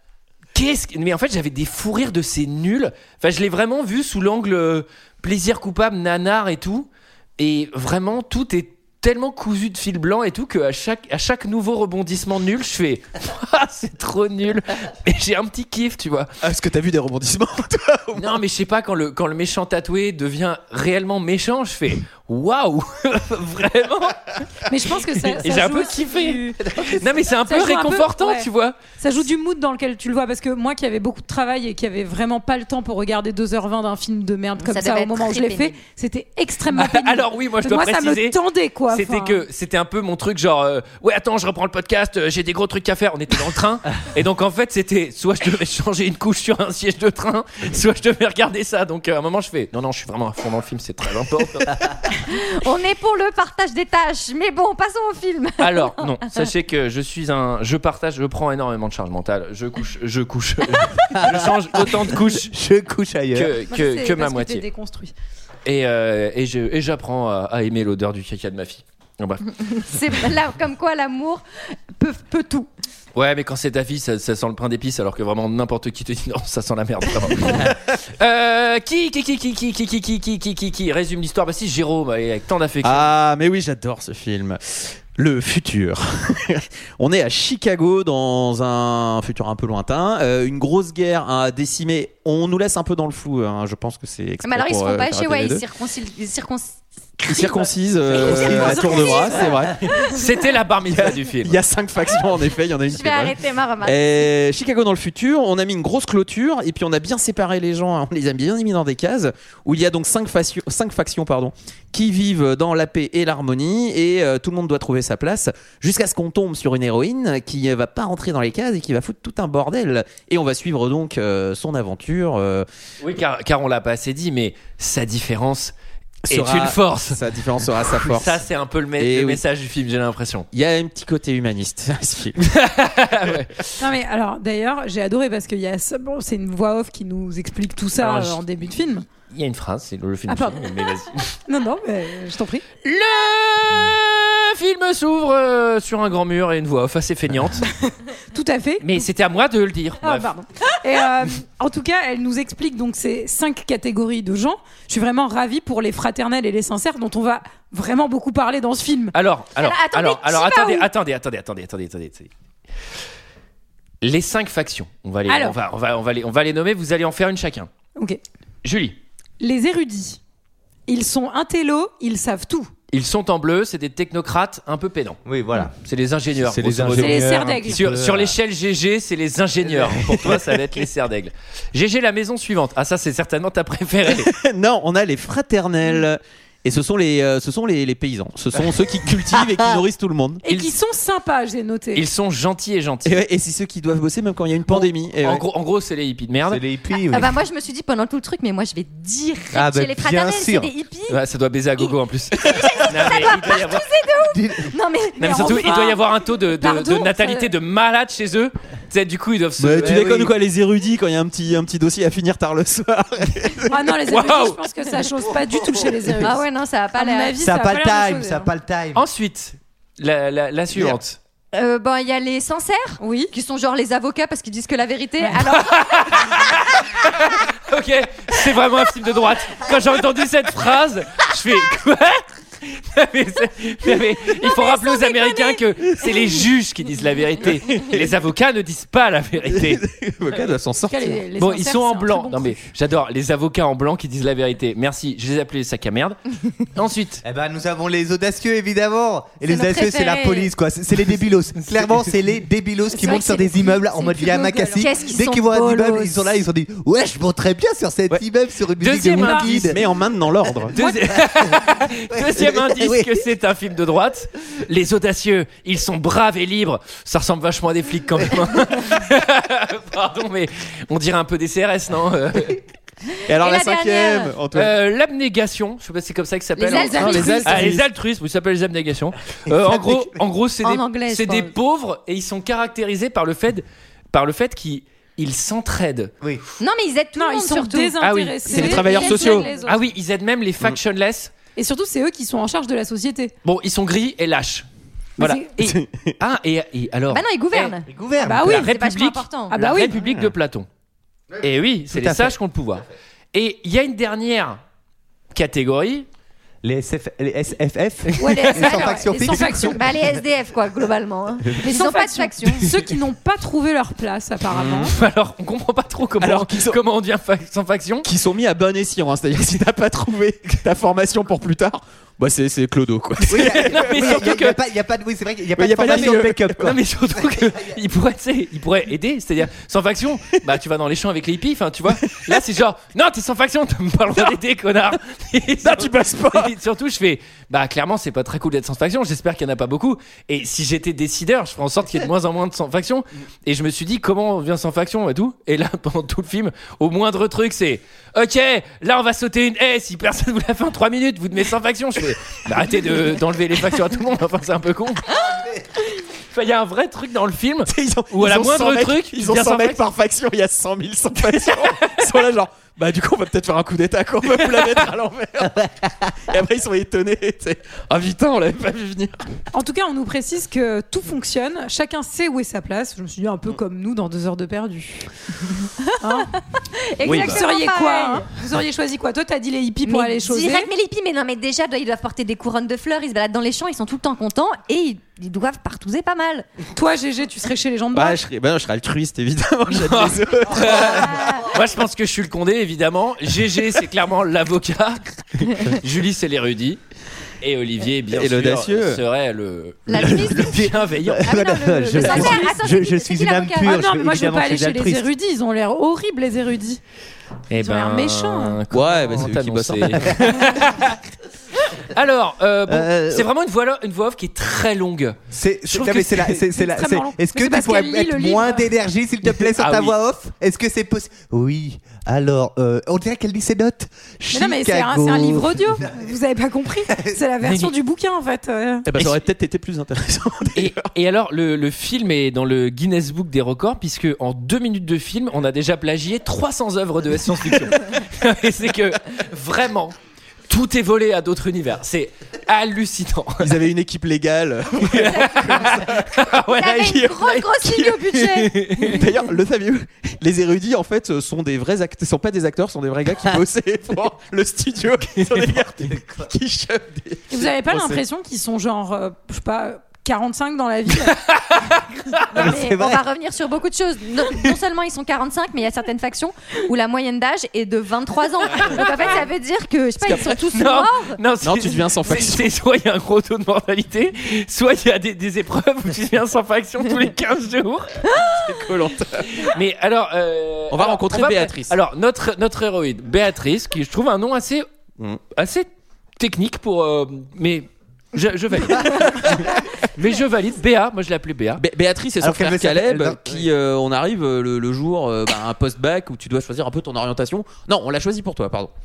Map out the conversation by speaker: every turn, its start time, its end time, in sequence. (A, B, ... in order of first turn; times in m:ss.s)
0:00.6-0:16.3 A
0:16.4-0:18.4 B
0:18.2-0:24.4 A
0:24.7-0:26.7 C
0:25.4-0:28.8 A
0:27.3-0:39.4 C
0:34.6-0:35.8 D
0:36.7-0:38.4 A
0:38.9-0:51.8 A
0:52.2-0:56.5 D
0:55.6-1:02.5 A
1:01.2-1:03.6 E
1:03.3-1:04.6 A
1:03.7-1:05.1 C
1:05.7-1:09.4 A
1:09.5-1:12.7 D
1:13.1-1:23.1 A
1:22.8-1:35.6 B
1:34.4-1:40.2 D
1:37.3-1:39.9 B
1:38.4-1:39.5 C
1:39.8-1:41.6 A
1:40.9-2:02.7 B
1:42.9-1:44.3 D
2:03.0-2:05.8 A
2:06.3-2:08.4 B
2:06.3-2:07.2 A
2:07.9-2:10.5 A
2:09.0-2:09.4 B
2:10.5-2:12.4 B
2:12.5-2:13.7 A
2:13.8-2:19.1 C
2:18.0-2:18.4 A
2:19.3-2:21.4 A
2:20.3-2:20.9 C
2:21.5-2:22.6 C
2:22.8-2:27.7 A
2:27.8-2:29.1 C
2:28.8-2:30.3 A
2:30.0-2:39.2 C
2:39.1-2:42.3 A
2:39.6-2:40.9 D
2:44.0-2:47.7 A
2:45.3-2:45.6 C
2:48.6-2:49.0 A
2:49.4-2:50.2 C
2:50.9-2:52.7 C
2:52.9-2:55.2 A
2:55.2-2:55.8 E
2:55.8-3:04.3 A
2:56.4-2:58.4 E
2:57.0-2:57.8 C
2:59.8-3:00.6 B
3:04.1-3:10.4 B
3:10.4-3:12.0 C
3:11.9-3:13.2 A
3:13.1-3:15.4 B
3:14.7-3:16.6 A
3:16.5-3:17.4 E
3:17.0-3:21.2 D
3:19.5-3:20.7 E
3:21.1-3:23.8 A
3:22.4-3:25.5 D
3:22.6-3:22.8 B
3:24.3-3:24.8 E
3:25.2-3:27.5 C
3:25.2-3:30.2 A
3:29.6-3:33.8 B
3:29.8-3:30.3 E
3:33.7-3:36.4 C
3:34.1-3:34.6 A
3:36.2-3:37.4 D
3:37.0-3:38.5 C
3:37.4-3:39.0 E
3:39.0-3:41.2 A
3:41.5-3:46.4 D
3:43.0-3:43.3 C
3:45.5-3:59.8 A
3:57.5-3:58.1 B
3:59.5-4:01.2 B
4:00.9-4:02.6 C
4:01.4-4:06.2 A
4:06.7-4:07.2 A
4:07.2-4:19.8 E
4:09.5-4:10.5 D
4:12.9-4:15.0 C
4:14.8-4:16.3 D
4:18.8-4:19.7 A
4:19.2-4:19.4 C
4:19.5-4:20.7 B
4:20.7-4:32.6 A
4:21.2-4:23.2 E
4:33.3-4:34.7 B
4:33.3-4:34.4 D
4:34.5-4:46.2 A
4:36.6-4:37.6 D
4:36.7-4:37.6 C
4:36.9-4:37.8 B
4:39.5-4:40.2 E
4:40.6-4:41.5 D
4:46.6-4:48.0 D
4:47.2-4:49.8 C
4:48.0-4:51.3 A
4:48.5-4:49.6 D
4:48.5-4:49.5 B
4:51.6-4:53.3 C
4:53.4-4:54.7 A
4:55.2-4:57.7 A
4:55.2-4:55.5 C
4:55.6-4:56.2 B
4:57.1-4:57.9 D
4:57.9-4:58.6 E
4:58.2-4:58.8 C
4:58.4-5:00.7 A
4:58.6-4:59.5 D
4:59.5-4:59.9 C
5:00.0-5:00.3 B
5:01.4-5:04.6 A
5:01.9-5:02.4 E
5:05.3-5:06.1 A
5:06.6-5:10.1 E
5:08.2-5:09.8 C
5:09.6-5:12.7 D
5:11.6-5:14.9 C
5:14.5-5:14.9 B
5:14.8-5:18.1 A
5:16.2-5:16.8 B
5:18.0-5:24.3 B
5:23.3-5:27.8 E
5:23.3-5:24.6 A
5:25.6-5:26.6 B
5:25.8-5:55.2 A
5:35.6-5:36.5 B
5:55.2-5:55.6 E
5:56.3-5:59.8 A
5:57.7-6:09.2 B
6:01.4-6:01.8 A
6:09.5-6:15.1 C
6:15.8-6:18.3 D
6:16.0-6:16.3 C
6:17.0-6:20.7 C
6:17.0-6:17.4 A
6:19.8-6:26.5 D
6:26.7-6:28.2 C
6:27.9-6:31.2 B
6:29.7-6:36.8 A
6:30.8-6:31.5 D
6:37.4-6:41.4 A
6:38.1-6:39.0 B
6:39.9-6:40.7 D
6:40.1-6:45.1 E
6:41.3-6:42.6 C
6:41.7-6:43.8 D
6:43.6-6:46.8 C
6:47.5-6:51.0 A
6:47.6-6:48.6 C
6:48.7-6:50.4 B
6:51.8-6:56.4 A
6:52.7-6:53.3 E
6:55.3-7:06.1 E
6:56.3-6:58.7 C
6:59.6-7:00.0 A
7:04.3-7:08.9 C
7:06.9-7:07.2 E
7:07.4-7:07.7 A
7:08.9-7:10.9 B
7:10.6-7:19.9 A
7:20.5-7:23.5 A
7:23.4-7:26.2 B
7:24.8-7:27.5 A
7:25.1-7:25.6 D
7:26.5-7:28.5 D
7:26.8-7:38.0 B
7:28.3-7:29.0 A
7:35.2-7:35.6 A
7:37.3-7:41.1 C
7:41.0-7:42.5 A
7:42.3-7:51.2 D
7:42.4-7:43.0 E
7:48.5-7:48.9 A
7:50.1-7:50.3 B
7:50.2-7:58.2 A
7:51.4-7:52.5 B
7:58.2-7:59.5 B
7:59.3-8:04.7 A
8:00.7-8:01.8 B
8:05.3-8:11.6 A
8:11.6-8:18.7 B
8:12.2-8:13.5 E